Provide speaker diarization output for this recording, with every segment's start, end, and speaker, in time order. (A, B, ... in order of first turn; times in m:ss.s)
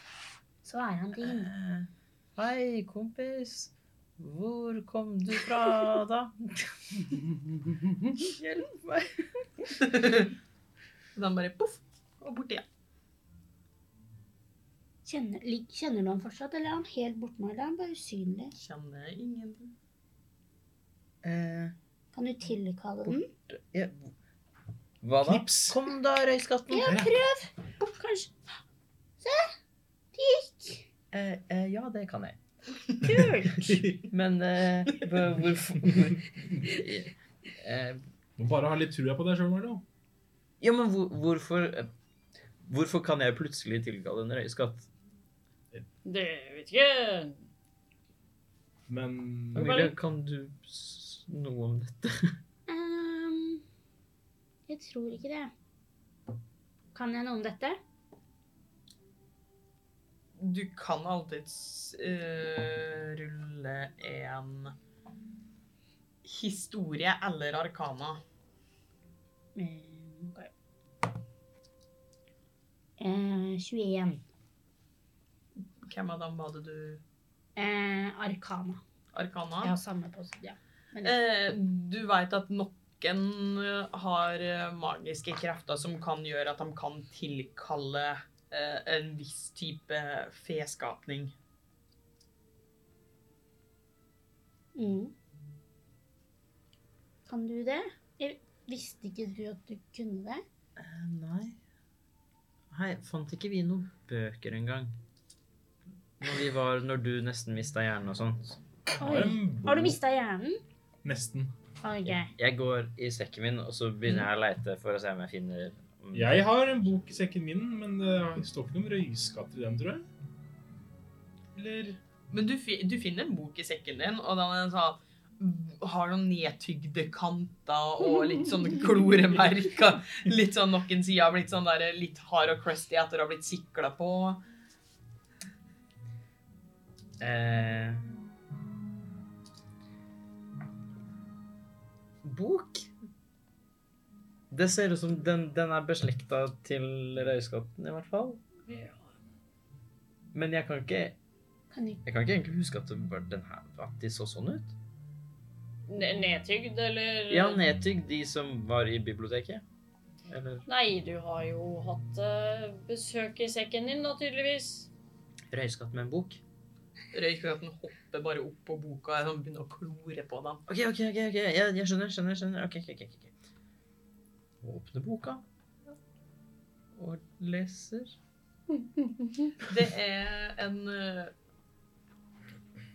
0:00.6-0:01.5 A
0:01.2-0:07.1 B
0:08.2-0:09.3 B
0:09.8-0:10.3 C
0:11.1-0:12.6 C
0:15.0-0:18.5 A
0:18.5-0:19.7 C
0:21.2-0:21.7 B
0:22.1-0:23.3 A
0:23.0-0:24.1 B
0:25.0-0:27.0 B
0:25.3-0:25.8 D
0:26.7-0:28.3 A
0:26.8-0:27.1 D
0:29.2-0:29.5 A
0:30.1-0:30.8 A
0:31.1-0:32.4 B
0:33.0-0:33.6 A
0:33.5-0:34.0 D
0:33.6-0:38.0 B
0:38.4-0:39.8 D
0:40.6-0:41.9 B
0:42.6-0:44.9 B
0:46.0-0:47.4 E
0:48.9-0:49.9 D
0:49.5-0:52.4 B
0:52.7-0:53.6 A
0:54.7-0:55.5 A
0:56.9-0:57.8 A
1:00.4-1:04.7 C
1:06.2-1:08.2 C
1:09.6-1:10.5 A
1:13.0-1:14.2 A
1:15.8-1:17.0 C
1:17.6-1:18.8 A
1:19.1-1:19.7 C
1:19.6-1:21.2 A
1:21.0-1:31.3 C
1:34.8-1:35.1 A
1:37.3-1:40.4 A
1:40.8-1:41.6 B
1:42.7-1:44.9 B
1:46.2-1:48.6 B
1:49.0-1:50.0 D
1:49.0-1:50.6 A
1:51.0-1:51.5 D
1:51.8-1:52.3 A
1:52.0-1:56.4 B
1:56.1-2:00.0 D
2:01.6-2:14.4 C
2:17.2-2:18.0 B
2:22.2-2:22.9 B
2:24.5-2:28.4 B
2:28.7-2:29.1 E
2:30.3-2:31.2 B
2:31.7-2:32.0 A
2:32.0-2:34.7 B
2:35.9-2:37.6 E
2:37.3-2:39.6 B
2:40.3-2:40.6 B
2:40.6-2:44.9 E
2:45.5-2:46.4 B
2:47.1-2:50.6 C
2:50.7-2:53.3 B
2:54.6-2:55.4 B
2:56.9-2:58.2 B
2:58.7-2:59.5 E
2:59.6-3:01.3 C